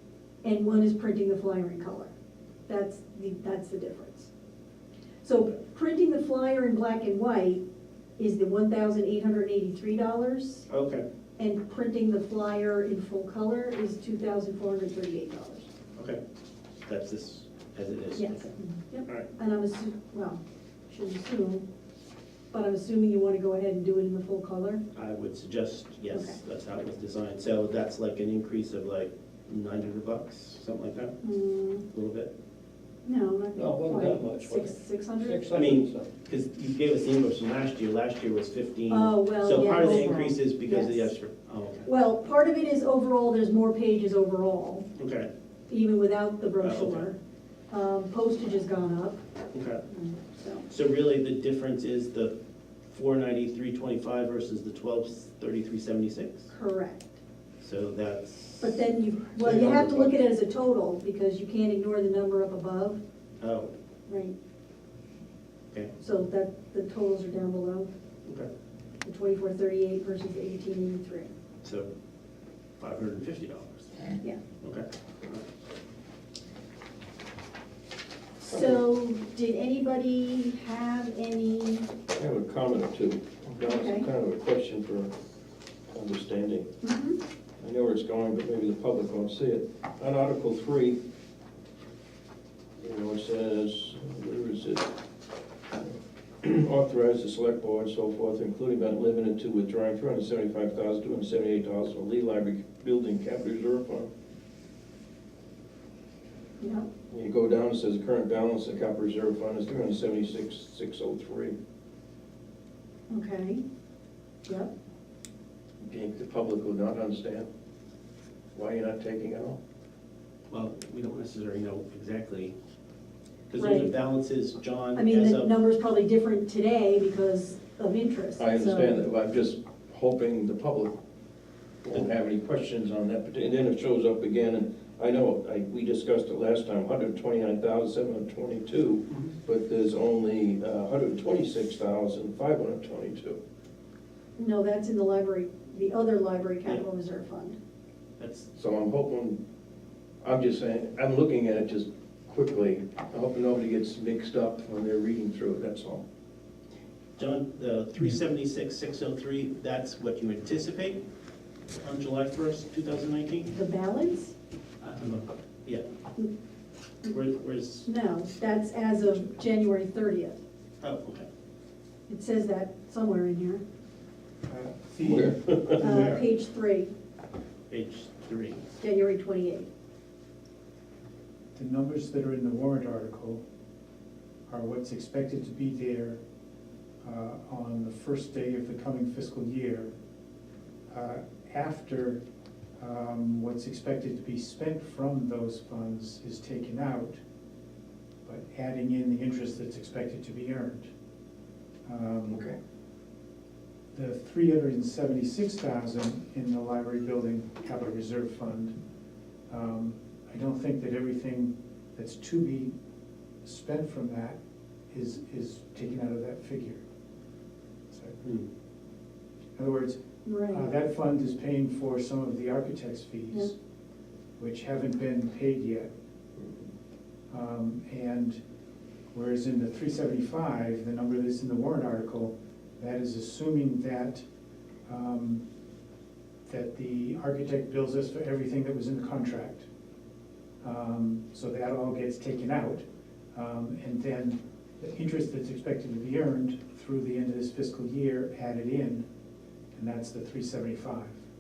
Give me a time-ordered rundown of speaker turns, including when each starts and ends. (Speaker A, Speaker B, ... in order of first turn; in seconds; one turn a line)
Speaker A: 0.4-2.1
Speaker A: 2.7-4.3
Speaker A: 5.2-7.6
Speaker A: 8.2-10.7
Speaker B: 10.7-11.0
Speaker A: 11.4-15.7
Speaker B: 16.8-18.5
Speaker A: 18.2-21.6
Speaker A: 22.5-24.8
Speaker B: 24.9-31.2
Speaker A: 26.1-26.4
Speaker A: 31.2-31.9
Speaker B: 31.9-32.3
Speaker A: 33.0-35.5
Speaker C: 33.5-36.1
Speaker B: 35.5-41.9
Speaker A: 38.9-41.1
Speaker A: 41.9-44.9
Speaker B: 45.0-45.3
Speaker A: 45.7-47.2
Speaker B: 46.6-47.0
Speaker A: 47.7-49.2
Speaker B: 49.5-49.8
Speaker A: 49.9-50.7
Speaker B: 50.7-52.3
Speaker B: 52.9-56.5
Speaker A: 56.5-57.2
Speaker B: 57.6-58.8
Speaker A: 58.6-63.0
Speaker B: 59.4-60.2
Speaker B: 63.4-63.7
Speaker A: 64.1-64.3
Speaker A: 66.0-67.9
Speaker A: 69.0-71.3
Speaker B: 71.6-71.9
Speaker B: 72.8-75.5
Speaker A: 78.4-81.9
Speaker C: 82.2-85.1
Speaker A: 83.6-84.1
Speaker C: 85.9-86.7
Speaker A: 86.8-87.2
Speaker C: 87.6-91.0
Speaker C: 92.8-94.9
Speaker C: 95.8-104.1
Speaker A: 106.6-106.9
Speaker C: 107.1-111.6
Speaker A: 113.1-113.6
Speaker A: 114.5-114.7
Speaker C: 115.8-117.5
Speaker C: 118.5-119.6
Speaker B: 120.5-122.5
Speaker B: 123.5-125.5
Speaker A: 123.6-123.9
Speaker A: 125.0-129.0
Speaker C: 128.4-130.9
Speaker C: 131.8-143.4
Speaker A: 144.4-147.6
Speaker B: 148.2-148.5
Speaker C: 148.5-149.4
Speaker C: 150.2-156.0
Speaker B: 157.2-161.0
Speaker B: 161.8-163.6
Speaker A: 163.5-164.3
Speaker B: 164.8-165.9
Speaker B: 167.1-167.9
Speaker A: 167.9-170.4
Speaker B: 170.8-171.3
Speaker A: 172.1-173.6
Speaker D: 174.5-176.2
Speaker C: 175.0-176.0
Speaker A: 175.8-176.9
Speaker B: 177.7-178.7
Speaker A: 178.8-179.7
Speaker D: 181.6-183.4
Speaker D: 184.5-186.2
Speaker D: 187.0-189.9
Speaker D: 190.9-192.2
Speaker D: 192.8-197.2
Speaker D: 198.2-200.9
Speaker D: 201.9-202.4
Speaker C: 202.3-202.6
Speaker D: 203.9-208.8
Speaker D: 209.5-212.7
Speaker D: 213.4-214.4
Speaker D: 214.9-216.8
Speaker D: 217.9-218.2
Speaker D: 219.6-220.0
Speaker A: 220.2-220.7
Speaker D: 220.5-223.6
Speaker D: 224.4-225.9
Speaker D: 227.3-228.4
Speaker D: 229.1-234.2
Speaker D: 234.9-235.4
Speaker D: 236.5-239.7
Speaker D: 240.6-249.1
Speaker D: 249.7-251.2